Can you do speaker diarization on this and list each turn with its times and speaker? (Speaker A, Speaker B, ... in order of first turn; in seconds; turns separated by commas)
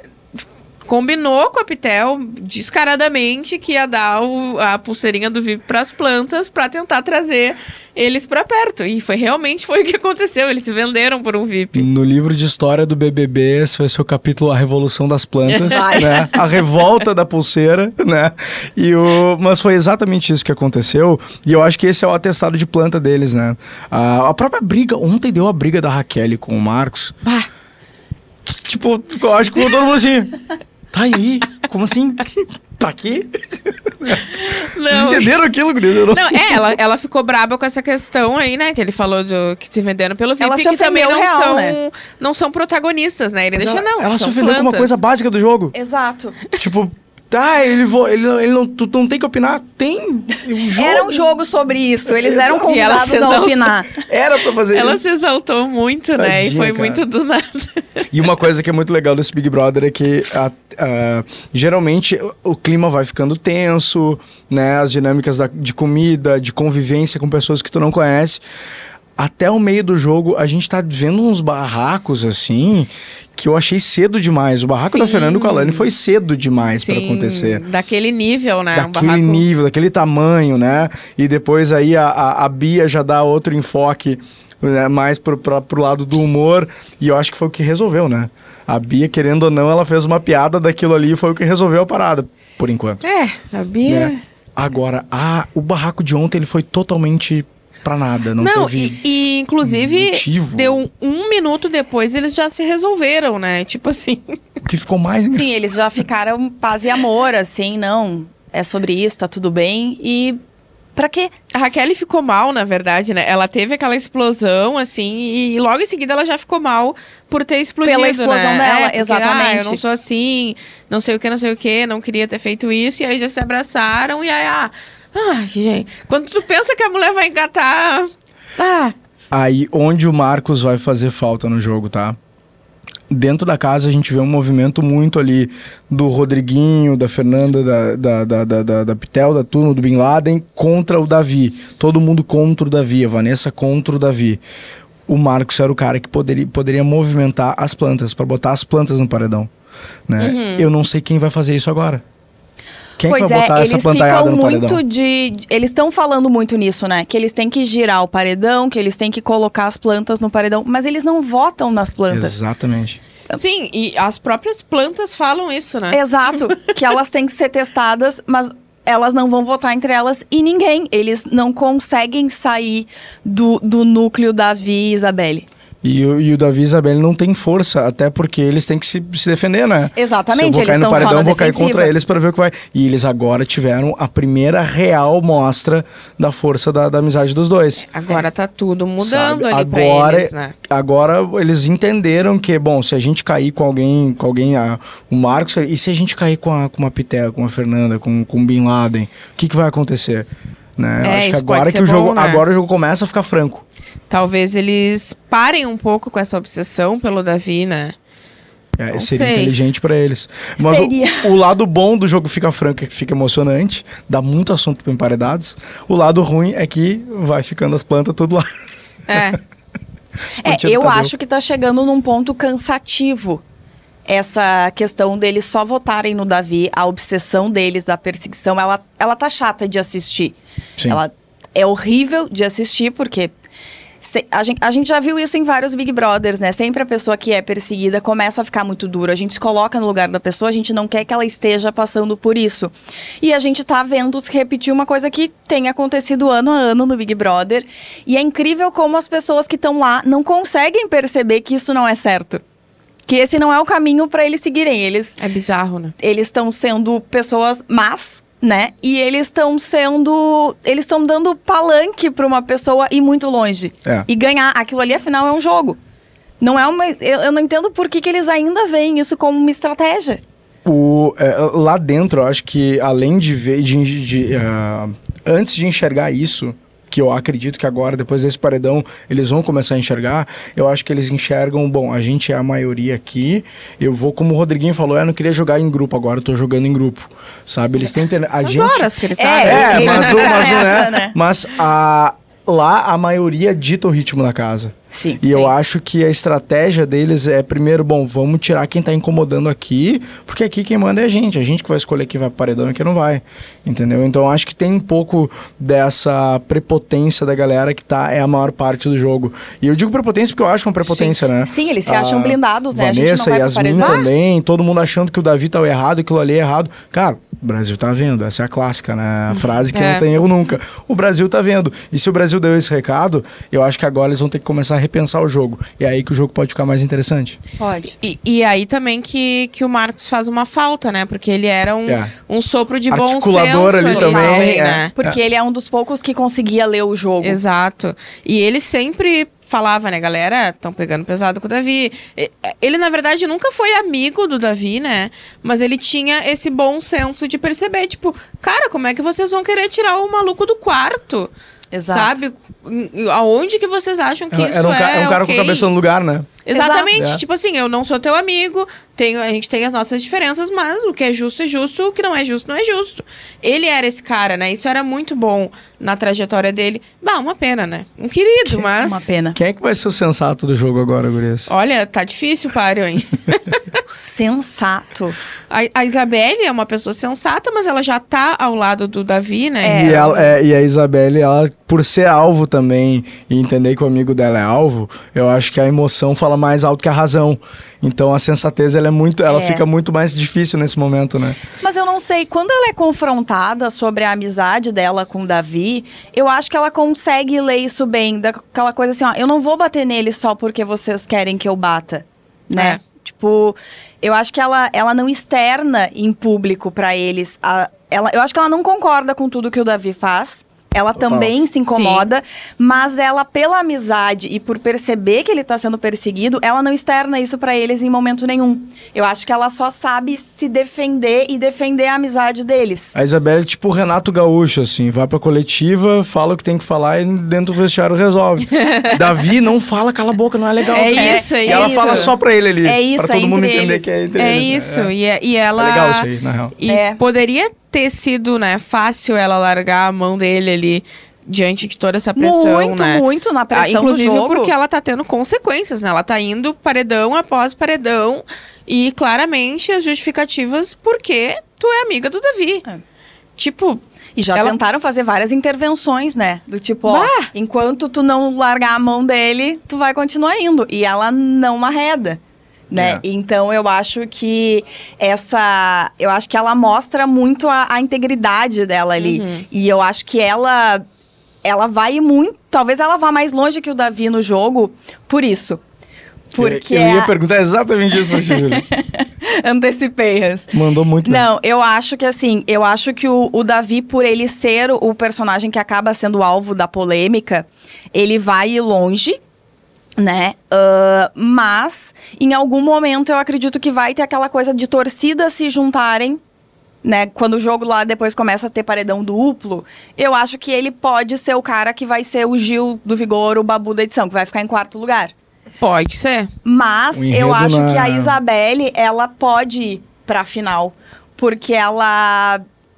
Speaker A: 0.8-11.9, Speaker B: 11.8-27.1, Speaker A: 15.4-16.2, Speaker C: 15.7-16.3, Speaker B: 28.4-30.4, Speaker B: 30.9-36.8, Speaker A: 34.3-35.3, Speaker A: 36.1-44.9, Speaker C: 40.4-41.8, Speaker B: 43.5-45.8, Speaker C: 45.7-46.4, Speaker B: 46.5-51.3, Speaker C: 50.8-53.9, Speaker B: 52.1-52.6, Speaker A: 52.6-53.7, Speaker B: 53.9-55.0, Speaker A: 54.7-58.0, Speaker B: 56.2-57.0, Speaker B: 58.1-68.4, Speaker B: 69.2-77.6, Speaker A: 74.8-75.9, Speaker A: 76.6-79.4, Speaker B: 78.7-93.0, Speaker A: 93.0-94.2, Speaker B: 93.9-99.0, Speaker A: 98.4-104.4, Speaker B: 99.6-100.8, Speaker B: 104.6-105.5, Speaker C: 105.3-110.4, Speaker C: 111.0-111.3, Speaker A: 111.5-128.9, Speaker C: 117.8-119.8, Speaker B: 129.3-132.2, Speaker B: 133.1-144.4, Speaker B: 145.1-149.5, Speaker B: 150.1-152.0, Speaker A: 150.2-150.7, Speaker B: 153.0-154.8, Speaker C: 153.1-162.4, Speaker B: 162.1-163.0, Speaker A: 163.3-166.4, Speaker C: 165.9-175.5, Speaker B: 175.8-187.9, Speaker C: 179.9-181.9, Speaker A: 187.9-190.5, Speaker B: 189.0-203.6, Speaker A: 201.0-202.4, Speaker A: 204.1-207.9, Speaker B: 208.8-218.5, Speaker A: 208.9-209.5, Speaker C: 210.6-211.3, Speaker A: 219.1-219.4, Speaker B: 220.4-221.1, Speaker C: 220.4-223.4, Speaker C: 224.1-230.4, Speaker C: 230.9-233.3, Speaker C: 234.0-252.4, Speaker C: 253.1-255.2, Speaker A: 255.2-255.9, Speaker C: 256.0-265.8, Speaker C: 266.4-270.2, Speaker B: 270.6-288.9, Speaker A: 288.4-290.7, Speaker C: 289.2-291.1, Speaker B: 289.4-327.4, Speaker C: 294.9-295.2, Speaker A: 295.2-295.5, Speaker C: 310.9-314.1, Speaker A: 319.7-320.0, Speaker C: 327.6-327.9, Speaker A: 328.0-334.9, Speaker B: 331.9-332.1, Speaker B: 332.9-335.2, Speaker C: 333.9-337.4, Speaker A: 337.2-351.3, Speaker C: 351.7-352.2, Speaker A: 351.9-355.7, Speaker B: 354.3-356.4, Speaker A: 356.4-369.1, Speaker C: 356.5-356.9, Speaker B: 356.9-357.2, Speaker C: 368.6-369.4, Speaker B: 369.4-371.5, Speaker A: 371.5-373.8, Speaker C: 373.9-375.1, Speaker A: 375.5-380.2, Speaker C: 379.6-380.3, Speaker B: 379.7-391.4, Speaker C: 389.3-389.6, Speaker C: 391.6-422.9, Speaker A: 402.5-402.8, Speaker B: 411.0-411.3, Speaker A: 411.7-412.1, Speaker B: 422.9-434.9, Speaker A: 428.5-429.0, Speaker A: 430.7-432.1, Speaker C: 430.9-433.9, Speaker A: 434.2-452.6, Speaker B: 435.6-436.5, Speaker C: 436.7-437.0, Speaker C: 442.1-444.5, Speaker A: 453.4-453.8, Speaker C: 454.1-462.2, Speaker A: 456.9-457.3, Speaker C: 462.7-470.8, Speaker B: 462.7-463.0, Speaker A: 469.0-469.4, Speaker C: 471.4-475.6, Speaker C: 476.4-477.1, Speaker B: 476.4-478.6, Speaker C: 477.9-489.2, Speaker B: 480.5-481.3, Speaker C: 490.0-496.2, Speaker C: 496.8-505.1, Speaker A: 505.6-506.3, Speaker C: 506.4-512.4, Speaker B: 506.9-508.2